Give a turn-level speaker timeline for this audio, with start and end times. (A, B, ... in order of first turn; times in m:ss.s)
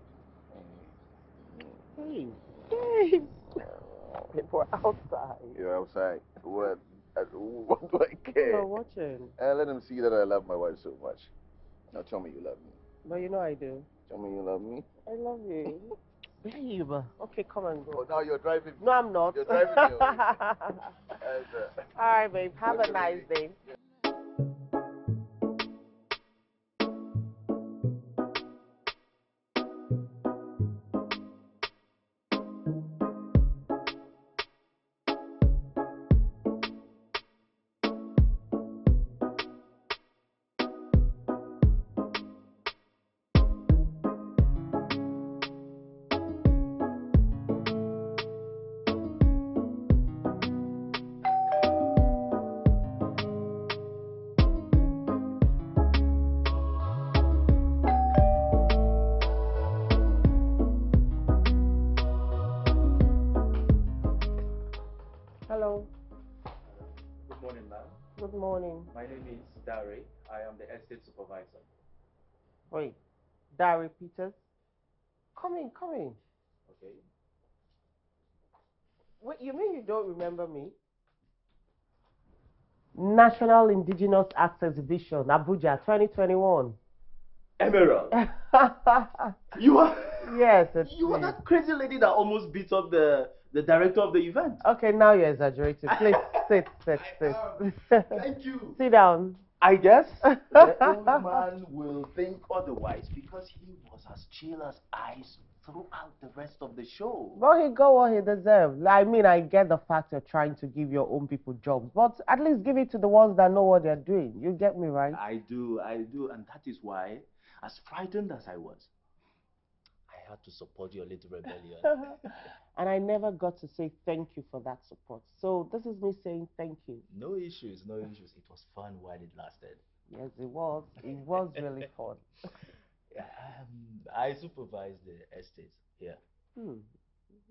0:00.5-0:01.9 A
0:02.0-0:03.5 B
0:03.6-0:04.3 A
0:04.3-0:05.6 B
0:05.5-0:08.7 A
0:08.4-0:09.3 B
0:09.4-0:11.3 A
0:11.9-0:12.8 A
0:13.0-0:13.9 B
0:14.1-0:14.9 A
0:15.1-0:18.1 B
0:17.9-0:20.4 A
0:18.8-0:20.9 B
0:21.1-0:23.3 A
0:21.9-0:23.6 B
1:05.5-1:05.9 B
1:06.6-1:08.0 C
1:08.2-1:08.9 B
1:08.9-1:11.7 C
1:12.7-1:13.0 B
1:13.5-1:14.4 B
1:15.4-1:16.2 B
1:16.7-1:17.0 C
1:19.2-1:20.8 B
1:23.0-1:26.8 B
1:27.6-1:28.2 C
1:28.1-1:29.4 B
1:29.5-1:34.6 C
1:30.2-1:31.4 B
1:34.6-1:38.2 B
1:35.9-1:38.8 C
1:38.8-1:39.4 B
1:39.6-1:47.4 C
1:40.4-1:40.9 B
1:47.4-1:55.2 B
1:55.1-1:58.9 C
2:00.1-2:02.4 C
2:02.8-2:07.0 B
2:07.1-2:09.8 C
2:10.1-2:12.2 B
2:13.1-2:16.2 C
2:16.6-2:16.9 B